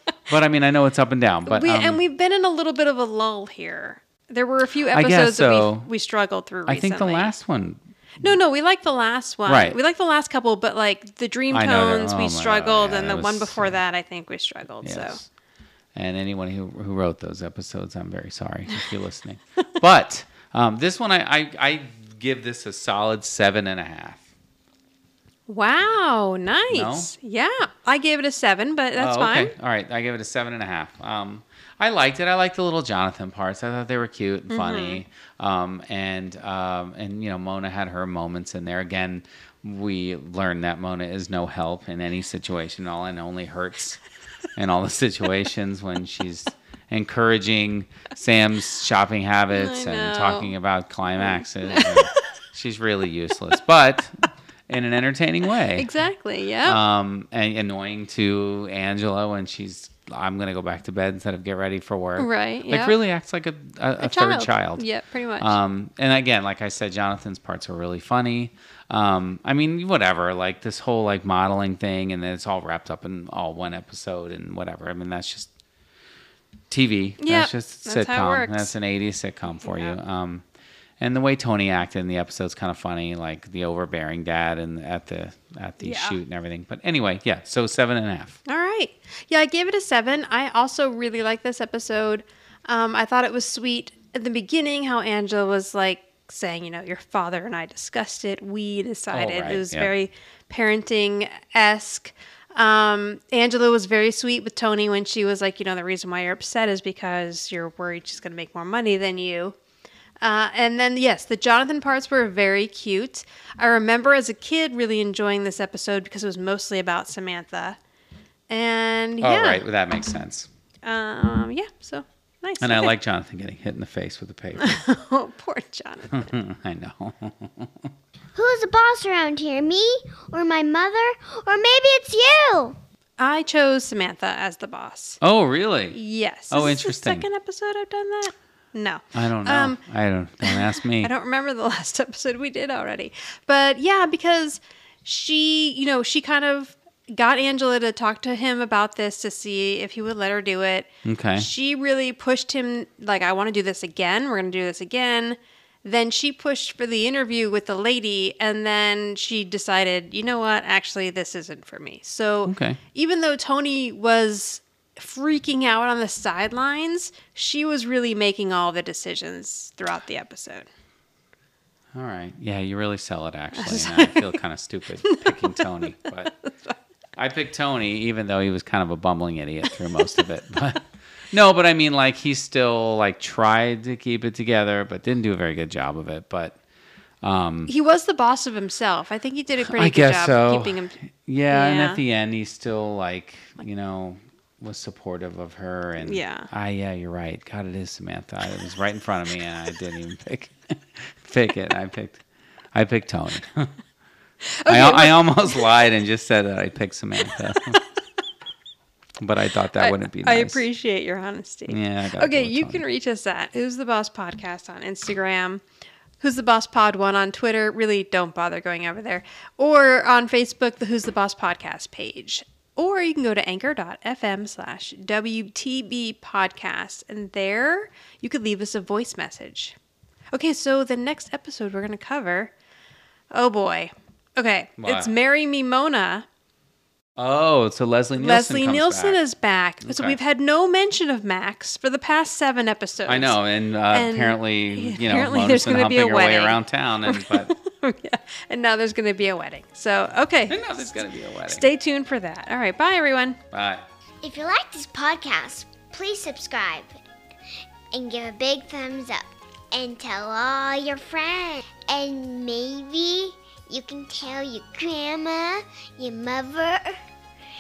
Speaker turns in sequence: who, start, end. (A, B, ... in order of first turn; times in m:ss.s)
0:00.3-0:02.0 A
0:01.4-0:07.3 B
0:04.9-0:05.9 A
0:06.7-0:07.8 A
0:08.2-0:15.2 B
0:09.4-0:09.8 A
0:11.5-0:13.8 A
0:14.8-0:15.3 A
0:15.9-0:24.2 A
0:25.5-0:29.5 B
0:26.7-0:27.1 A
0:29.0-0:44.0 A
0:34.5-0:35.0 B
0:44.6-0:55.9 A
0:49.5-0:50.5 B
0:51.2-0:52.2 B
0:55.8-0:56.8 B
0:56.6-1:04.8 A
1:02.2-1:03.0 B
1:04.0-1:05.6 B
1:05.4-1:15.5 A
1:16.7-1:20.4 A
1:17.2-1:18.7 B
1:19.6-1:20.0 B
1:21.0-1:28.4 A
1:25.8-1:26.2 B
1:28.4-1:49.6 B
1:39.1-1:39.9 A
1:50.2-1:57.8 B
1:58.5-1:59.6 B
1:59.2-2:00.5 A
2:00.8-2:03.0 B
2:02.6-2:04.8 A
2:04.6-2:06.3 B
2:06.1-2:07.9 A
2:08.4-2:12.8 C
2:13.2-2:15.2 B
2:15.2-2:16.0 A
2:15.9-2:19.8 B
2:16.5-2:17.3 A
2:19.1-2:21.1 A
2:20.4-2:50.7 B
2:31.0-2:31.5 A
2:42.4-2:42.8 A
2:51.9-2:56.3 A
2:53.5-2:54.4 B
2:55.0-2:56.8 B
2:57.2-3:06.6 A
3:07.2-3:07.7 A
3:07.7-3:11.0 B
3:09.6-3:23.7 A
3:11.5-3:12.0 B
3:16.0-3:16.5 B
3:24.4-3:25.7 B
3:24.7-3:27.8 A
3:29.2-3:30.6 A
3:29.8-3:35.6 B
3:31.7-3:32.8 A
3:36.2-3:49.8 B
3:50.3-3:52.5 B
3:53.3-3:56.3 B
3:54.8-3:55.1 A
3:57.2-3:59.2 A
3:58.2-4:03.4 B
3:59.8-4:00.2 A
4:03.1-4:07.5 A
4:03.9-4:11.0 B
4:10.5-4:11.7 A
4:11.4-4:13.4 B
4:13.5-4:13.9 A
4:14.2-4:17.0 C
4:17.9-4:27.0 C